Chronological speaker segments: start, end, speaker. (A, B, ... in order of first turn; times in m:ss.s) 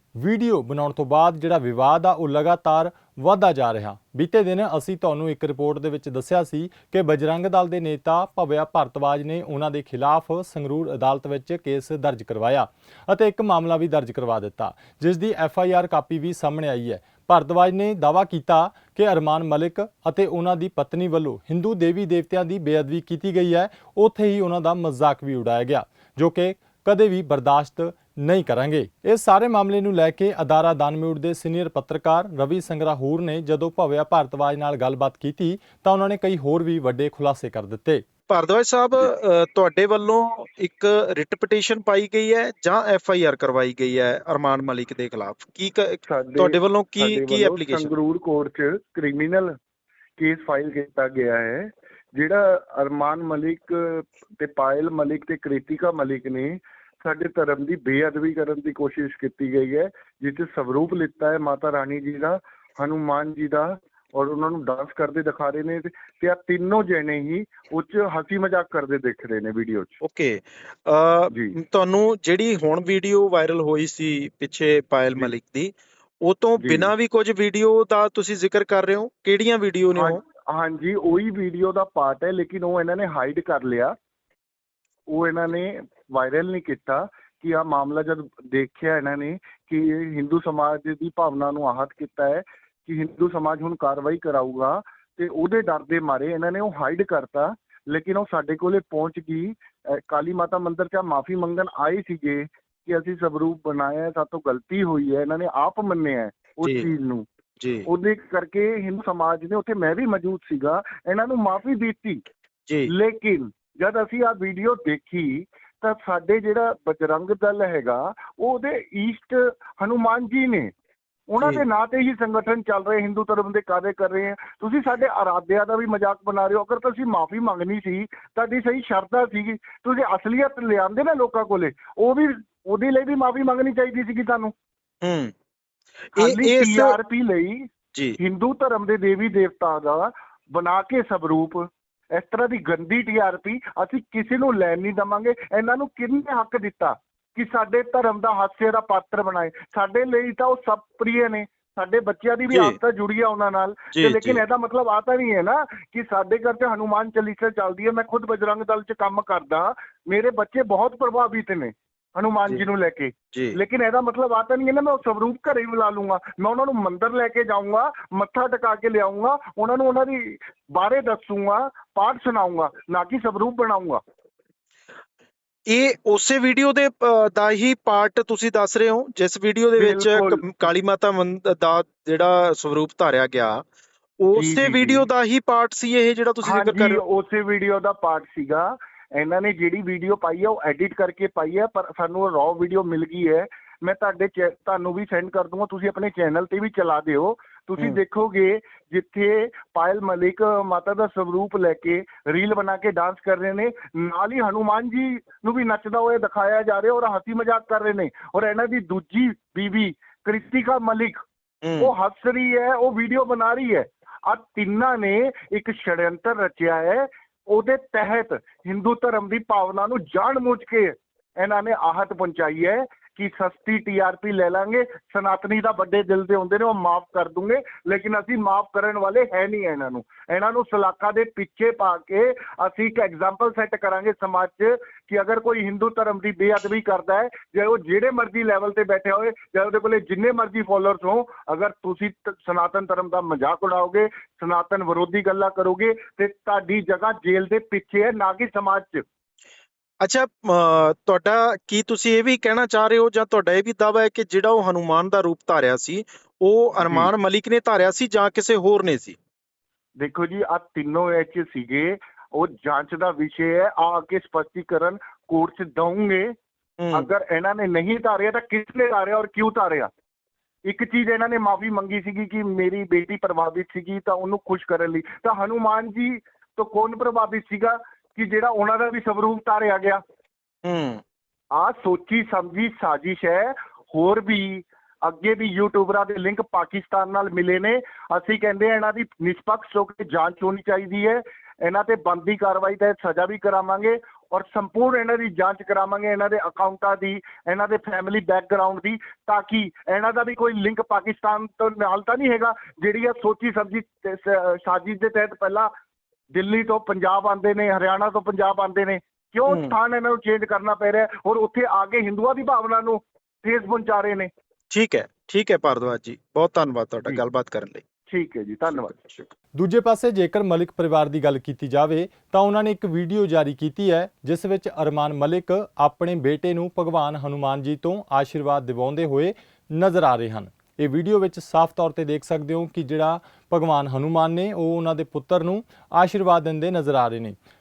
0:00.2-0:38.0 A
0:38.3-0:47.9 B
0:46.0-0:49.6 C
0:50.2-1:10.0 C
1:10.0-1:20.2 B
1:16.6-1:16.9 C
1:20.0-1:23.9 C
1:25.1-1:47.2 C
1:46.6-1:46.9 B
1:47.6-1:47.9 B
1:47.8-1:52.2 C
1:52.9-2:00.7 C
2:01.3-2:14.5 C
2:01.4-2:01.6 B
2:15.0-2:15.3 B
2:16.2-2:17.0 B
2:16.2-2:17.7 C
2:18.2-2:54.0 C
2:32.5-2:32.8 B
2:33.9-2:34.4 B
2:43.3-2:43.6 B
2:55.7-3:03.6 B
2:59.8-3:00.4 C
3:04.2-3:07.0 B
3:04.3-3:05.1 C
3:06.4-3:31.2 C
3:31.6-3:31.9 B
3:31.8-4:09.0 C
4:10.0-4:19.2 B
4:16.8-4:17.1 C
4:20.0-4:26.3 C
4:26.8-4:27.1 B
4:26.9-4:29.9 C
4:30.6-4:40.0 C
4:40.6-4:41.0 B
4:41.5-5:05.7 C
5:06.3-5:14.3 C
5:09.5-5:09.7 B
5:14.7-5:17.8 B
5:18.1-5:19.1 C
5:19.6-5:37.4 A